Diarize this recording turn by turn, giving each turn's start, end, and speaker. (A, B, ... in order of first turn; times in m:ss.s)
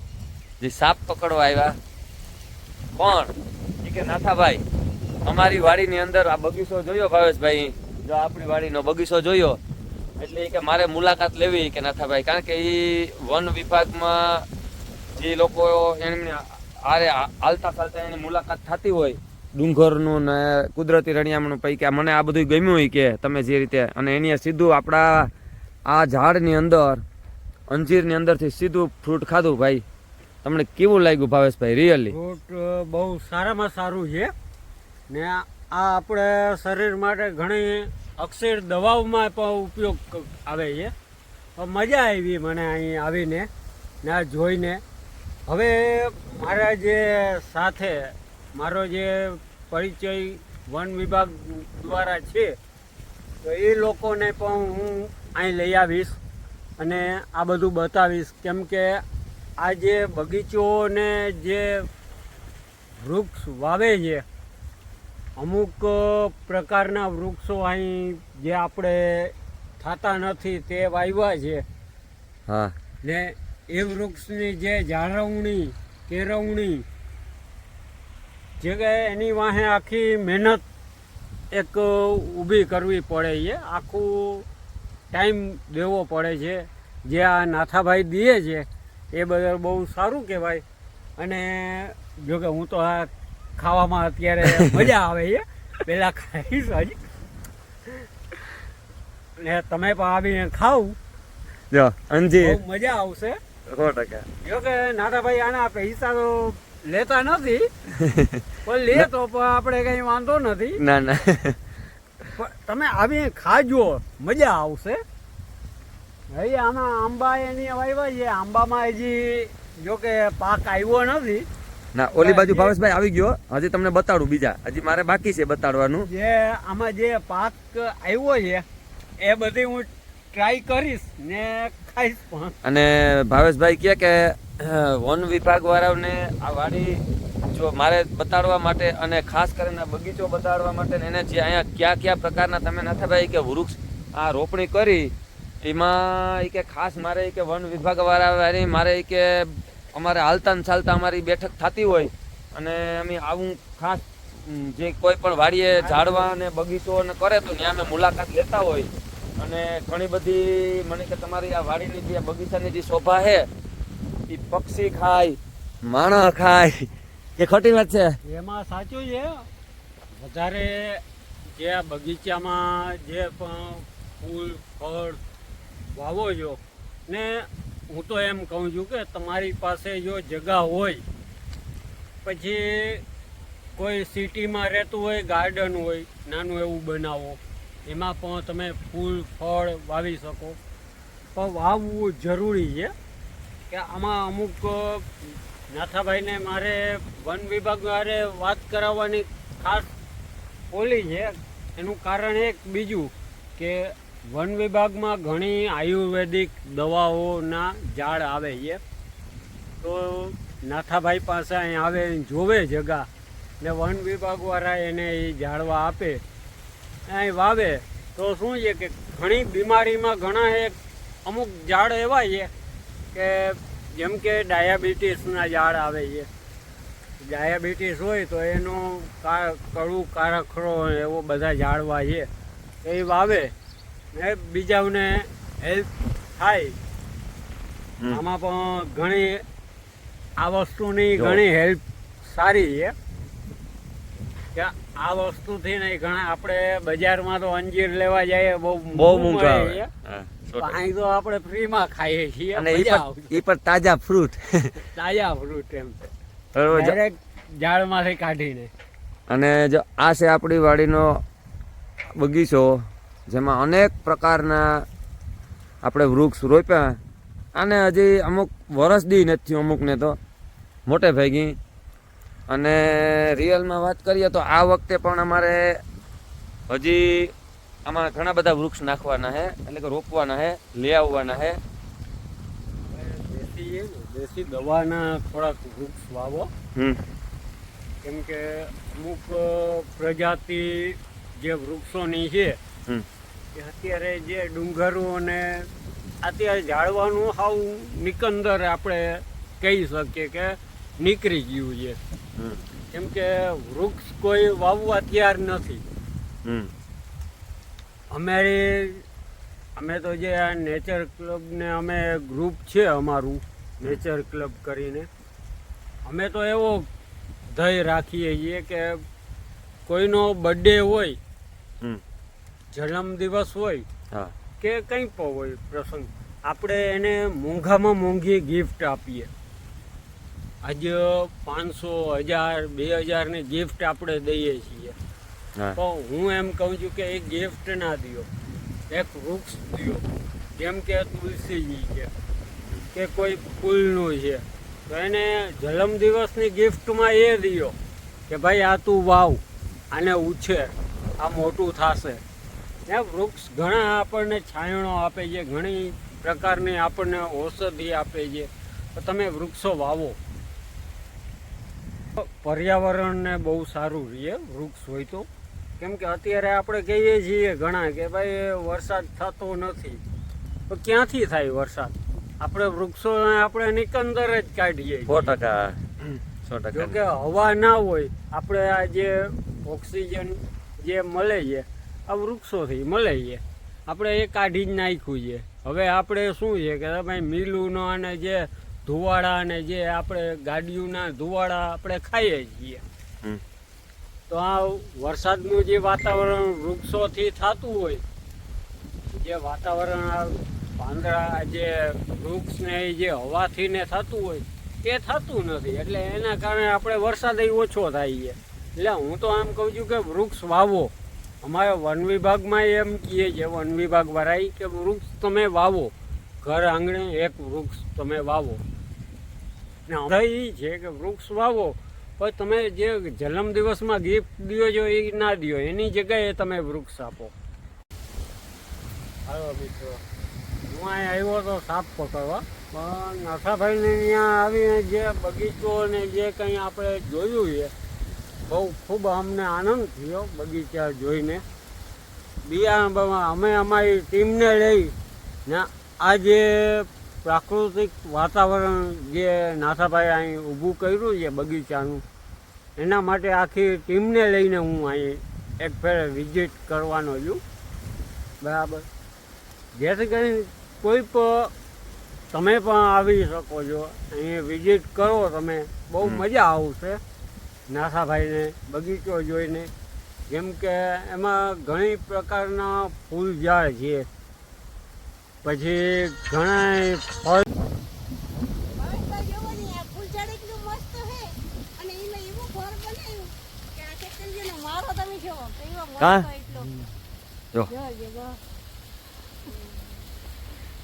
0:00.6-0:01.7 A
0:03.0-0:03.3 A
0:03.8-0:04.6 A
0:05.3-0:09.6 A
0:10.2-0:14.4 A
0:15.2-0:25.3 A
0:25.9-0:27.0 A
0:27.7-0:29.8 A
0:30.4-0:32.2 A
0:32.1-0:34.3 B
0:35.1-0:40.9 B
0:41.6-0:43.5 B
0:44.0-0:44.8 B
0:45.5-0:52.5 B
0:53.4-0:56.2 B
0:56.8-0:59.0 B
0:59.6-1:01.9 B
1:03.0-1:04.2 B
1:05.4-1:11.6 B
1:12.5-1:12.8 A
1:13.0-1:16.9 B
1:18.6-1:20.6 B
1:21.5-1:24.5 B
1:25.1-1:30.6 B
1:31.2-1:37.0 B
1:34.6-1:34.9 A
1:39.4-1:41.0 B
1:41.7-1:42.6 A
1:42.4-1:43.4 B
1:43.7-1:44.2 A
1:44.4-1:47.6 B
1:48.0-1:49.1 A
1:48.6-1:50.8 B
1:50.8-1:51.6 A
1:52.3-1:55.0 B
1:56.3-2:01.5 B
2:02.0-2:06.1 A
2:02.2-2:02.8 B
2:06.0-2:08.6 B
2:09.2-2:12.6 B
2:12.6-2:43.4 A
2:35.8-2:36.3 B
2:44.3-2:46.8 A
2:47.4-2:48.1 A
2:48.3-2:49.5 B
2:50.2-2:51.0 B
2:51.5-2:55.2 B
2:56.0-3:01.0 B
3:02.2-3:03.0 B
3:03.8-3:10.6 B
3:11.4-3:12.9 B
3:13.7-3:15.1 B
3:15.7-3:19.9 B
3:20.7-3:28.8 B
3:29.8-3:33.1 B
3:33.6-3:36.2 B
3:37.1-3:40.8 B
3:41.3-3:42.5 B
3:43.1-3:46.3 B
3:47.2-3:52.3 B
3:52.8-3:53.5 B
3:54.1-3:56.8 B
3:58.1-3:59.4 B
4:00.4-4:02.9 B
4:01.2-4:01.4 A
4:04.6-4:09.9 B
4:08.9-4:10.8 A
4:10.6-4:13.4 B
4:12.6-4:14.7 A
4:14.8-4:16.0 B
4:16.6-4:17.0 A
4:16.7-4:18.7 B
4:19.3-4:21.0 A
4:22.2-4:22.7 A
4:23.3-4:24.6 A
4:25.8-4:27.0 A
4:27.6-4:30.2 A
4:30.9-4:31.6 A
4:32.5-4:35.6 A
4:36.7-4:37.3 A
4:37.9-4:41.6 A
4:42.9-4:46.5 B
4:48.0-4:52.6 B
4:53.6-4:55.7 B
4:56.2-5:02.0 B
5:02.9-5:05.8 B
5:08.1-5:09.0 B
5:09.8-5:15.1 B
5:16.0-5:16.9 B
5:17.5-5:19.0 B
5:19.9-5:21.2 B
5:22.7-5:23.9 B
5:24.6-5:29.3 B
5:30.6-5:35.0 B
5:35.8-5:38.3 B
5:38.9-5:40.0 B
5:40.6-5:42.1 B
5:42.9-5:47.7 B
5:48.3-5:52.2 B
5:52.9-6:00.2 B
6:02.2-6:05.3 B
6:05.8-6:10.0 B
6:10.7-6:15.4 B
6:15.1-6:17.0 A
6:16.7-6:32.8 B
6:34.3-6:38.0 B
6:39.1-6:58.6 B
6:59.9-7:07.3 B
7:09.3-7:10.0 B
7:10.7-7:17.7 B
7:18.4-7:21.4 B
7:22.4-7:24.9 B
7:25.5-7:32.0 B
7:32.8-7:37.4 B
7:38.4-7:38.9 B
7:39.8-7:41.5 B
7:42.3-7:47.0 B
7:47.7-7:49.7 B
7:50.3-7:54.1 B
7:55.4-7:57.5 B
7:58.7-8:06.7 C
8:06.0-8:06.3 A
8:06.6-8:06.9 B
8:07.7-8:08.4 C
8:09.5-8:09.9 C